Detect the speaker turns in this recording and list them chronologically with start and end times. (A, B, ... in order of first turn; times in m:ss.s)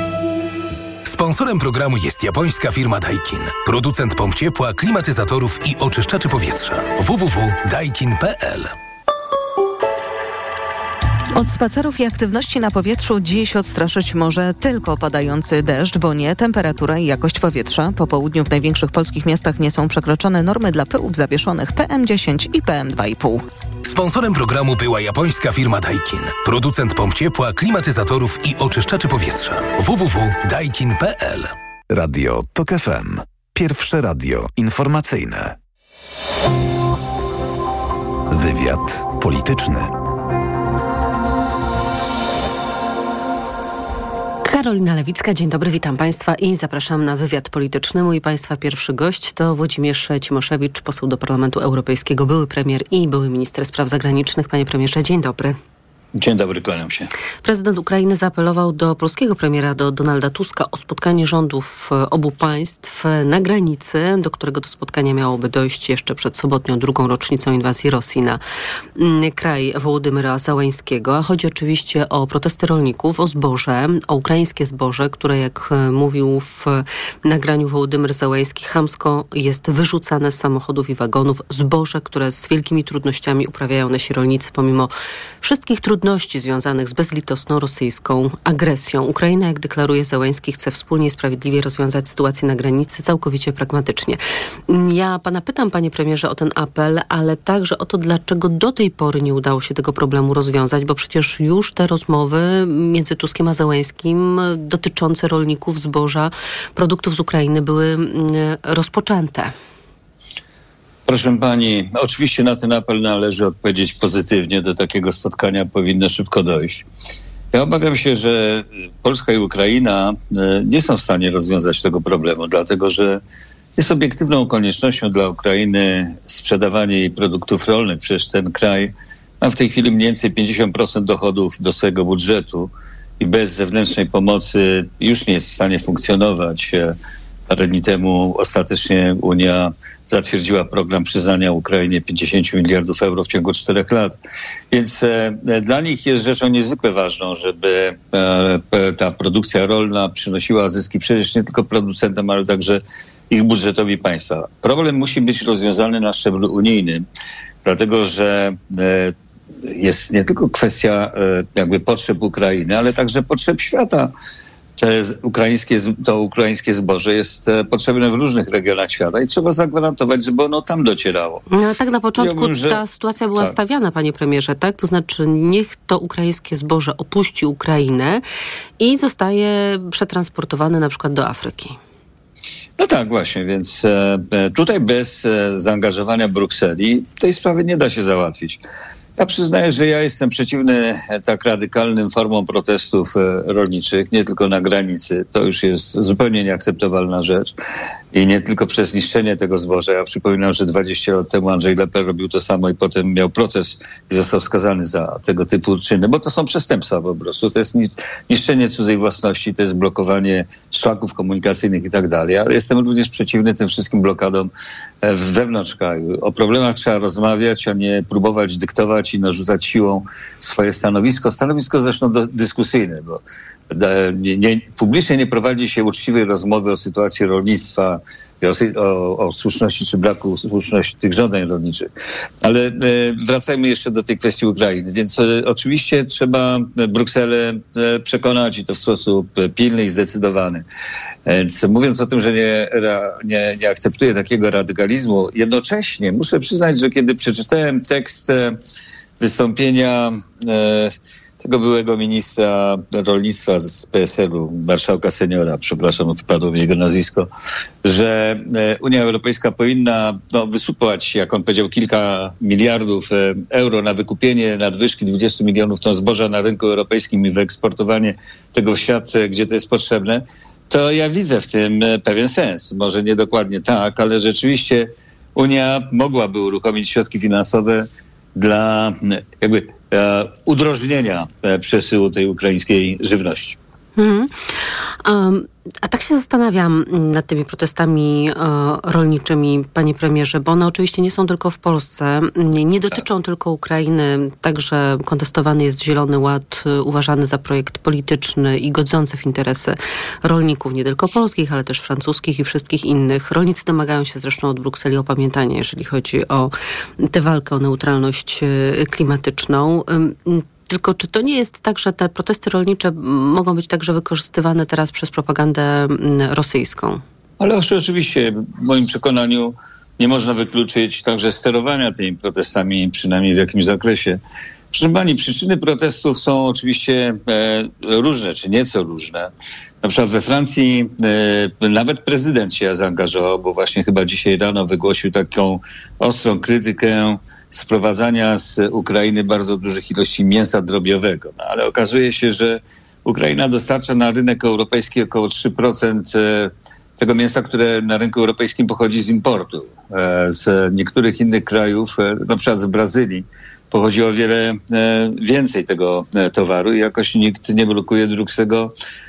0:01.0-0:08.7 A
0:11.4-0:23.4 B
0:23.8-0:31.5 A
0:31.9-0:35.6 C
0:38.3-0:40.0 C
0:44.4-0:55.6 D
0:56.2-0:57.1 E
0:57.4-1:08.4 D
1:09.0-1:24.9 D
1:25.4-1:49.5 D
1:51.1-1:56.8 E
1:57.5-2:03.2 E
2:03.8-2:16.9 E
2:17.5-2:24.2 E
2:24.7-2:37.0 E
2:37.6-2:39.1 E
2:39.7-2:44.1 E
2:44.8-2:51.5 E
2:51.5-2:58.2 D
2:52.2-2:52.8 E
2:58.8-3:01.8 D
3:02.8-3:08.6 E
3:09.2-3:17.5 E
3:18.1-3:34.5 E
3:35.0-3:51.9 E
3:52.4-4:00.6 E
4:01.3-4:08.6 E
4:09.2-4:17.3 E
4:17.8-4:43.6 E
4:44.0-5:17.0 D
5:17.4-5:24.2 E
5:24.7-5:29.3 E
5:29.8-5:58.7 E